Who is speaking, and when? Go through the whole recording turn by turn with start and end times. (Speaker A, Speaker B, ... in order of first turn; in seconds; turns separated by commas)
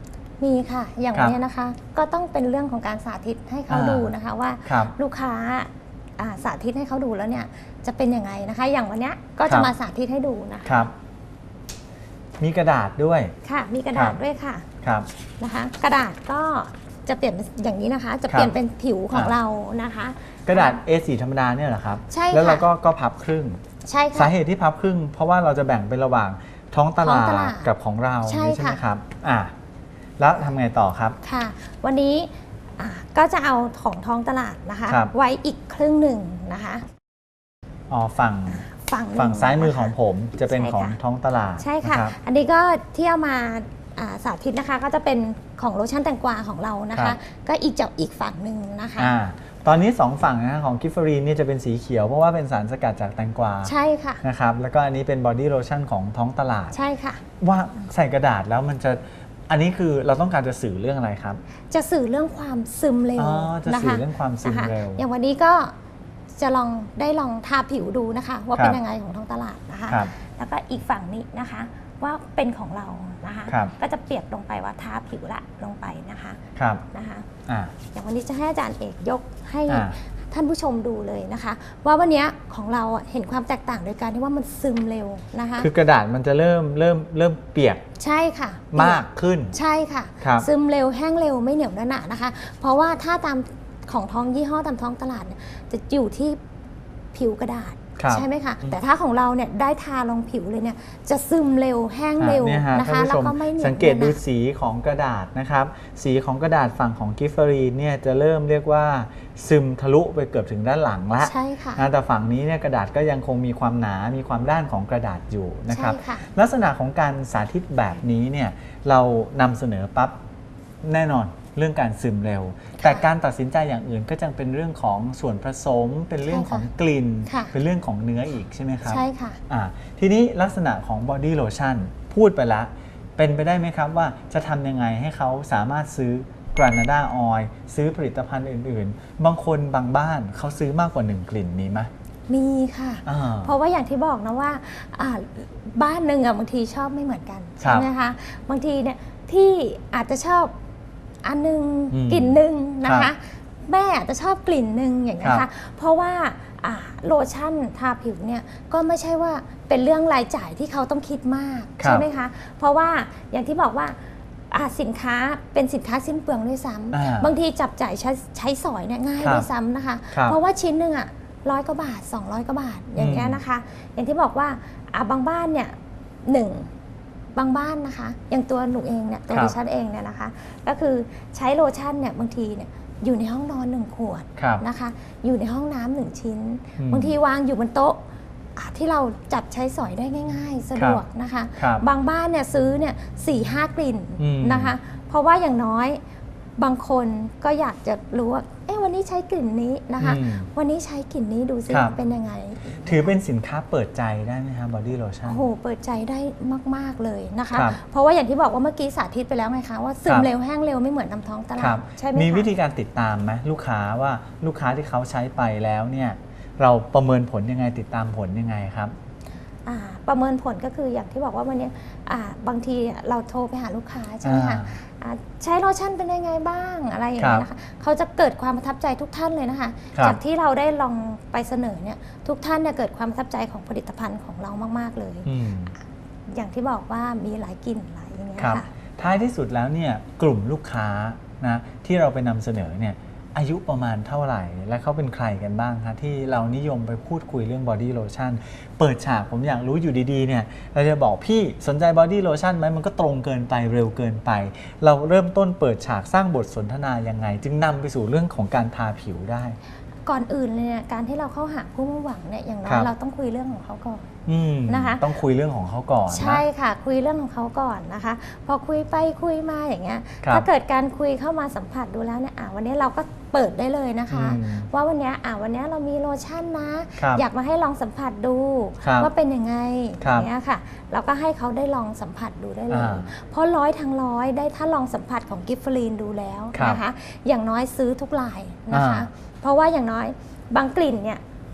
Speaker A: 0.4-10.9, Speaker B: 3.7-4.1, Speaker B: 4.6-4.9, Speaker B: 9.5-9.7, Speaker B: 10.6-10.9, Speaker B: 12.4-13.3, Speaker A: 13.4-14.7, Speaker B: 13.9-14.2, Speaker B: 14.8-15.1, Speaker A: 15.4-20.8, Speaker B: 20.4-23.6, Speaker A: 22.1-22.6, Speaker A: 23.8-24.3, Speaker B: 24.1-29.5, Speaker A: 27.0-27.7, Speaker A: 28.2-28.8, Speaker B: 30.2-31.2, Speaker A: 31.2-36.8, Speaker B: 34.9-35.1, Speaker B: 37.9-42.1, Speaker A: 38.5-39.9, Speaker A: 40.5-41.0, Speaker A: 41.6-49.1, Speaker B: 46.9-47.2, Speaker B: 49.0-56.8, Speaker A: 53.6-54.2, Speaker A: 56.7-57.2, Speaker B: 57.4-61.4, Speaker A: 61.7-65.7, Speaker B: 63.2-65.0, Speaker A: 66.4-76.4, Speaker B: 73.5-73.7, Speaker B: 76.5-76.8, Speaker A: 76.9-77.3, Speaker B: 77.5-77.7, Speaker A: 77.9-85.7, Speaker B: 79.7-79.9, Speaker B: 85.6-87.8, Speaker A: 88.0-96.4, Speaker B: 88.7-89.5, Speaker B: 90.2-90.5, Speaker A: 97.1-104.2, Speaker B: 98.0-98.2, Speaker B: 102.2-120.2, Speaker A: 111.2-111.8, Speaker A: 115.7-116.3, Speaker B: 120.8-141.9, Speaker A: 126.3-126.6, Speaker A: 127.2-127.5, Speaker A: 128.8-129.4, Speaker A: 142.3-150.5, Speaker B: 143.1-143.5, Speaker B: 147.6-147.9, Speaker A: 151.2-164.0, Speaker B: 151.9-153.1, Speaker B: 155.2-155.4, Speaker B: 161.8-162.1, Speaker A: 164.5-175.7, Speaker B: 166.9-167.3, Speaker B: 169.2-169.5, Speaker B: 170.1-170.4, Speaker B: 173.0-173.4, Speaker A: 176.2-176.7, Speaker A: 177.3-188.0, Speaker B: 179.3-179.6, Speaker B: 184.4-184.6, Speaker B: 186.8-187.2, Speaker A: 188.6-196.0, Speaker B: 190.8-191.0, Speaker B: 191.6-191.8, Speaker B: 194.2-194.7, Speaker A: 196.6-203.1, Speaker B: 200.0-200.5, Speaker B: 201.7-202.0, Speaker B: 202.8-205.5, Speaker A: 205.2-212.5, Speaker B: 207.5-207.8, Speaker B: 211.6-218.9, Speaker A: 219.7-235.3, Speaker B: 224.2-224.8, Speaker B: 227.2-227.4, Speaker B: 235.2-235.7, Speaker A: 236.3-238.7, Speaker B: 238.4-259.6, Speaker A: 260.0-264.1, Speaker B: 262.6-262.9, Speaker B: 264.2-266.4, Speaker A: 264.6-265.1, Speaker A: 266.1-291.2, Speaker B: 274.1-274.7, Speaker B: 277.0-277.2, Speaker B: 278.8-279.1, Speaker B: 280.0-280.3, Speaker B: 282.7-283.1, Speaker B: 286.5-286.8, Speaker B: 288.7-289.1